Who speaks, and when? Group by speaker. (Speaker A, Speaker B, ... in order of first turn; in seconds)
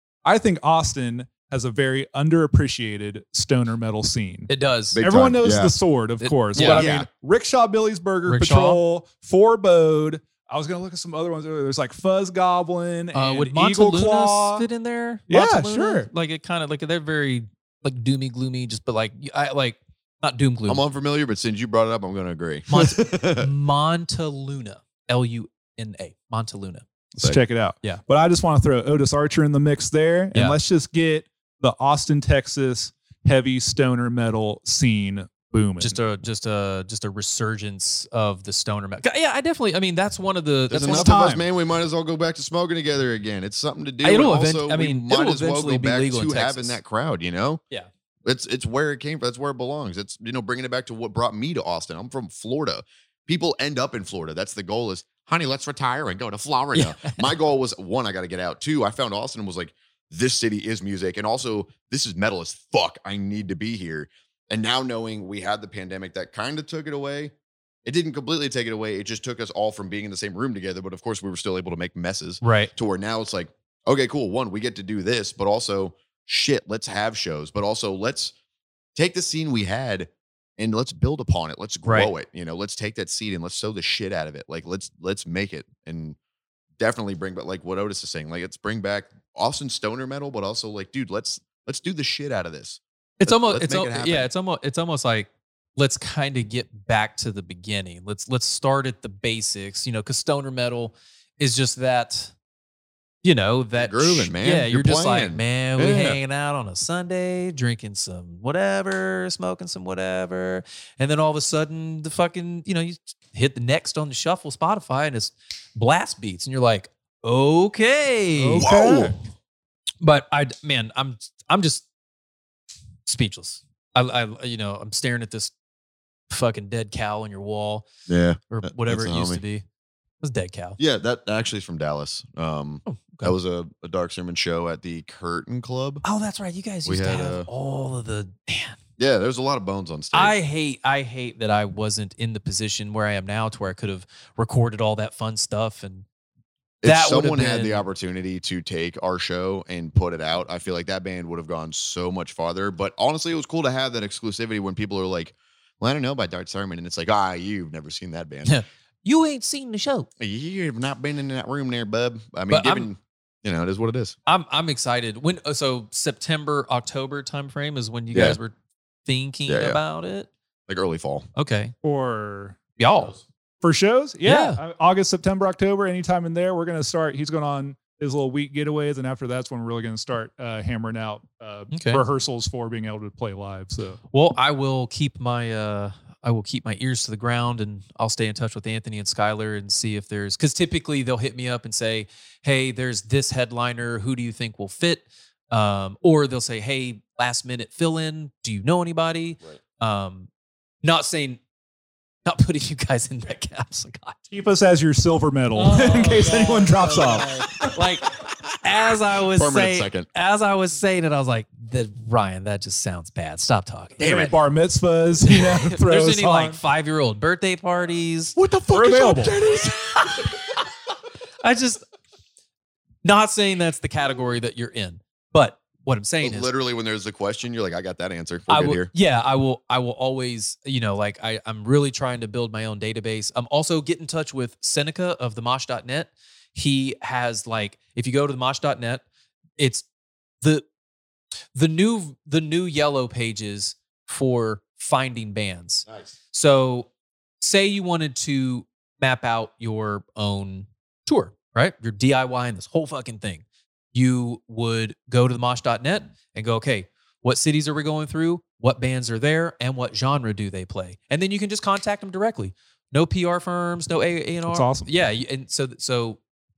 Speaker A: 0.2-14.7, 15.3-16.1, 27.2-36.0, 40.7-41.5, 118.4-119.1, 171.8-172.6, 173.6-184.0, 204.3-207.7, 214.0-216.6, 218.4-219.4, 264.4-264.9
Speaker B: 4.5-5.0, 6.2-6.9, 8.3-8.8, 13.1-20.8, 22.7-26.9, 35.8-41.1, 44.0-46.8, 56.8-57.2, 72.4-72.7, 81.8-82.1, 93.2-102.3, 103.2-118.7, 120.0-121.8, 123.1-125.5, 126.3-127.9, 128.5-129.6, 130.2-130.8, 132.9-133.3, 136.0-138.8, 140.1-146.1, 146.8-147.8, 158.4-160.1, 162.5-162.9, 164.3-168.5, 169.1-170.3, 171.4-171.7, 172.8-173.2, 174.2-174.6, 181.7-182.0, 184.1-200.3, 200.8-201.4, 202.2-204.2, 205.6-214.3, 215.2-218.4, 219.4-220.6, 221.4-221.8, 223.0-226.5, 228.5-239.0, 239.6-239.9, 241.5-246.9, 247.4-266.2
Speaker C: 4.9-5.7, 6.6-7.1, 20.7-23.5, 40.7-47.6, 48.2-67.3, 67.8-78.3, 79.0-86.2, 86.8-94.3, 103.8-106.2, 118.6-119.2, 128.1-129.4, 130.8-136.0, 136.9-137.5, 139.0-140.4, 146.8-158.6, 160.2-164.2, 168.1-168.4, 169.5-169.8, 170.7-171.3, 209.3-210.1, 218.4-220.2, 226.2-228.9, 245.9-246.1